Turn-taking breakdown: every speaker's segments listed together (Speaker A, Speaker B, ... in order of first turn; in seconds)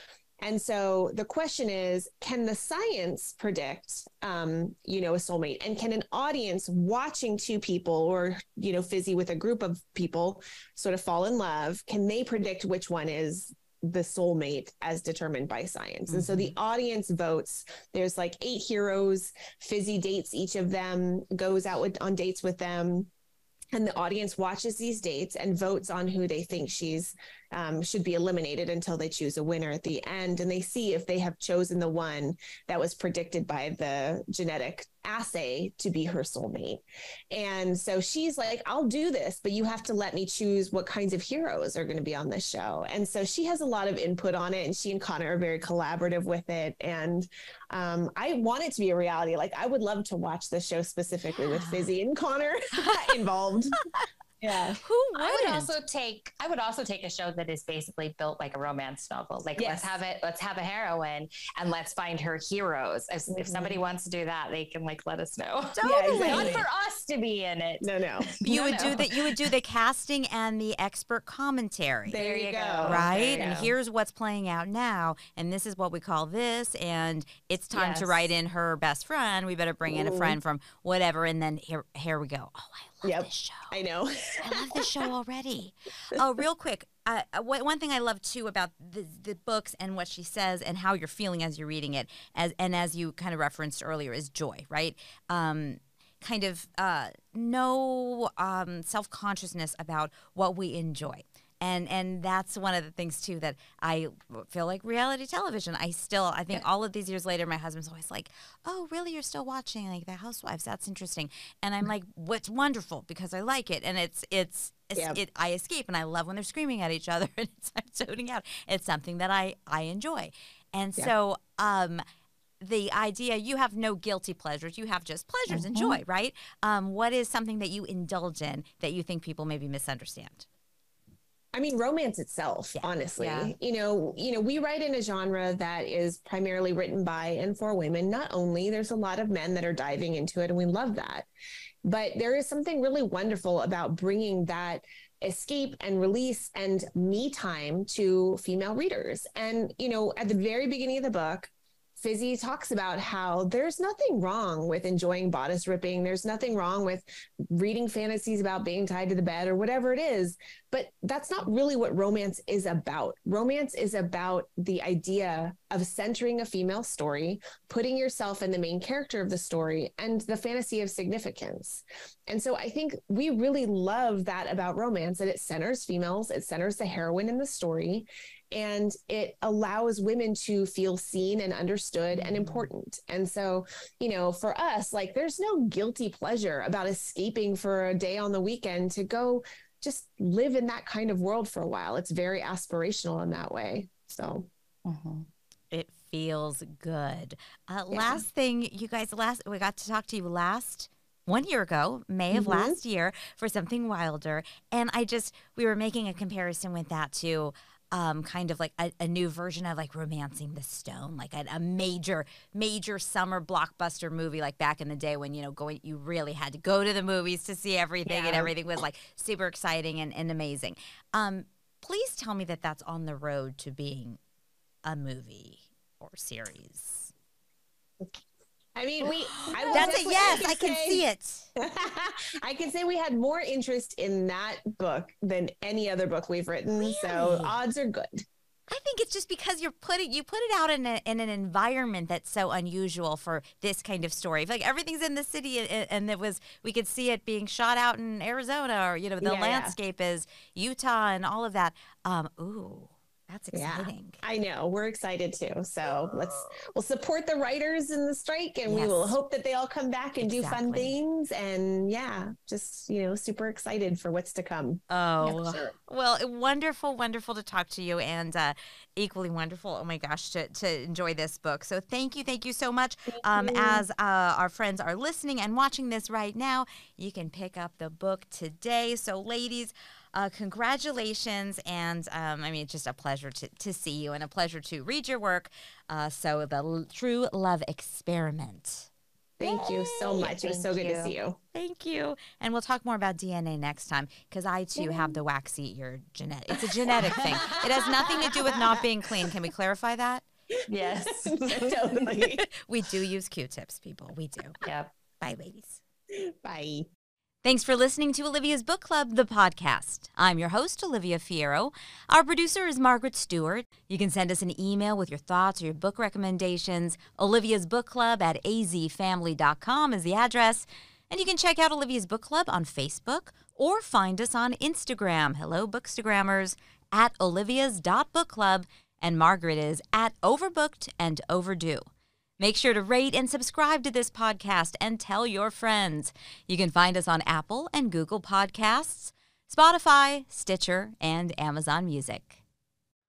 Speaker A: 0.4-23.1, 23.7-53.8, 54.4-54.8, 59.6-60.0, 63.3-63.8, 65.8-66.7, 67.8-68.3, 72.1-73.1, 79.9-80.4, 83.0-85.0, 115.0-115.2, 131.5-141.3, 141.8-194.5, 197.9-198.2, 202.3-202.8, 228.8-231.0, 231.6-238.2, 249.2-249.8, 253.5-265.7, 273.4-273.8, 289.4-291.4, 294.8-295.1, 297.1-298.6, 300.8-302.5, 306.1-306.9
Speaker B: 16.1-16.5, 51.5-51.8, 54.8-55.7, 65.8-66.6, 68.4-72.2, 72.8-83.7, 84.4-122.0, 122.6-130.5, 195.7-224.2, 224.8-227.1, 229.1-231.5, 236.8-237.5, 238.7-254.2, 256.0-256.5, 258.7-259.2, 260.2-260.9, 264.9-288.9, 291.5-300.3, 302.4-304.6, 305.2-305.8, 307.4-331.9, 332.4-342.4
Speaker C: 55.2-69.1, 72.1-73.7, 77.7-78.3, 125.5-126.0, 133.2-133.5, 182.1-182.7, 194.8-195.3, 218.1-218.5, 229.5-230.0, 289.4-291.1, 300.7-301.8, 304.6-304.9